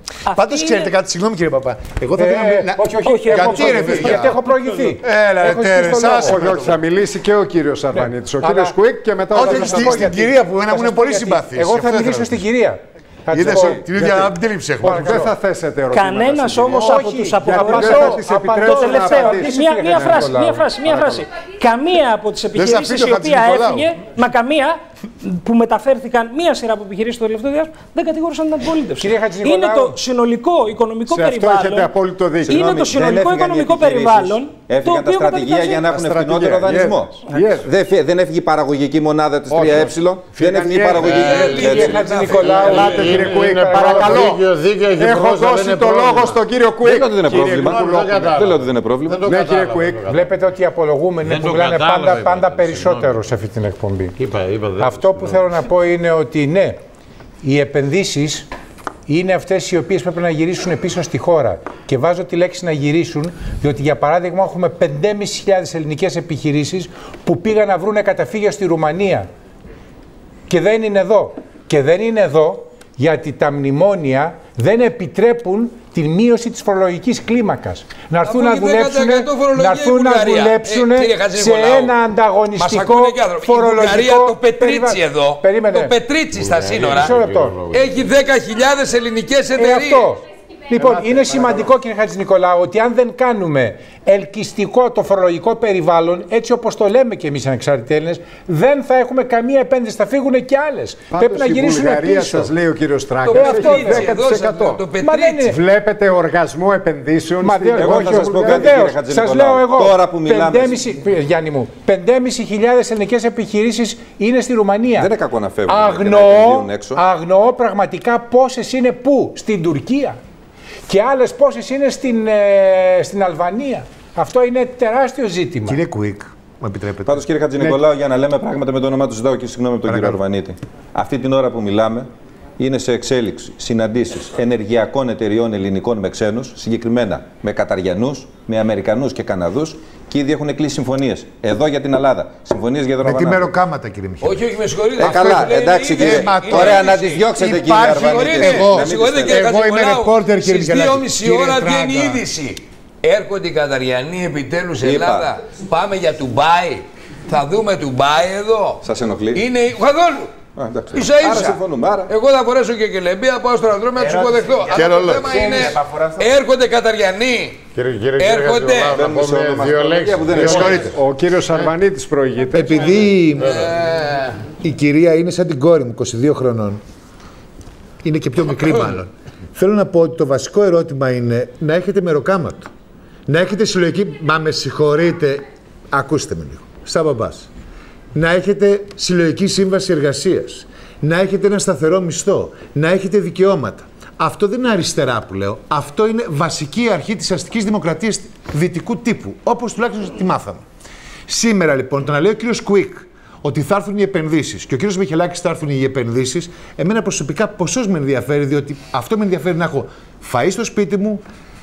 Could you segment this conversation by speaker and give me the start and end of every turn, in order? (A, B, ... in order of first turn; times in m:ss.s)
0:00.3-0:01.0 A
0:00.3-0:04.4 B
0:02.2-0:06.8 C
0:03.0-0:05.0 A
0:05.0-0:06.7 B
0:06.2-0:10.1 D
0:07.9-0:08.8 C
0:09.3-0:14.2 C
0:09.3-0:12.4 B
0:13.3-0:15.2 B
0:13.9-0:14.3 D
0:14.8-0:15.4 C
0:14.9-0:21.2 D
0:15.9-0:31.9 A
0:16.7-0:21.2 C
0:22.6-0:24.0 B
0:29.0-0:30.0 C
0:31.1-0:32.6 D
0:32.4-0:42.0 E
0:32.5-0:35.8 A
0:35.8-0:37.7 D
0:39.5-0:44.4 D
0:41.0-0:41.6 F
0:41.2-0:42.8 G
0:41.4-0:44.3 C
0:42.5-0:46.4 F
0:45.0-0:48.2 D
0:46.8-0:49.3 E
0:47.2-0:50.3 F
0:49.3-0:50.0 D
0:50.0-0:54.2 C
0:51.2-0:53.2 F
0:54.2-0:55.5 F
0:54.8-0:56.8 C
0:57.4-0:58.5 C
0:59.1-1:09.3 C
1:10.5-1:25.9 C
1:18.2-1:22.0 G
1:22.6-1:27.1 G
1:26.3-1:28.1 F
1:26.9-1:27.6 C
1:27.7-1:30.2 G
1:29.6-1:42.5 C
1:30.8-1:31.7 F
1:41.1-1:44.8 D
1:43.2-1:45.5 G
1:43.3-1:44.1 C
1:45.0-1:45.6 C
1:45.4-1:48.8 D
1:47.4-1:55.1 C
1:47.8-1:50.8 E
1:55.0-1:57.0 E
1:55.7-2:00.2 C
2:00.9-2:05.8 C
2:05.7-2:07.2 B
2:07.0-2:23.5 E
2:09.9-2:10.2 B
2:23.0-2:24.4 B
2:24.2-2:27.2 G
2:25.0-2:29.5 E
2:25.0-2:32.2 B
2:27.8-2:38.8 G
2:34.8-2:35.3 E
2:38.8-2:39.4 E
2:39.3-2:40.3 G
2:40.6-2:42.1 E
2:40.9-2:47.6 G
2:44.7-2:45.4 F
2:44.8-2:45.2 B
2:47.8-2:51.0 F
2:48.2-2:49.0 G
2:48.9-2:51.0 E
2:50.4-2:53.1 D
2:50.5-2:50.8 B
2:52.5-2:53.6 B
2:53.4-2:53.7 F
2:53.4-2:54.4 G
2:54.6-2:56.8 B
2:58.0-3:02.7 B
3:03.3-3:07.5 B
3:08.1-3:20.7 B
3:21.3-3:31.2 B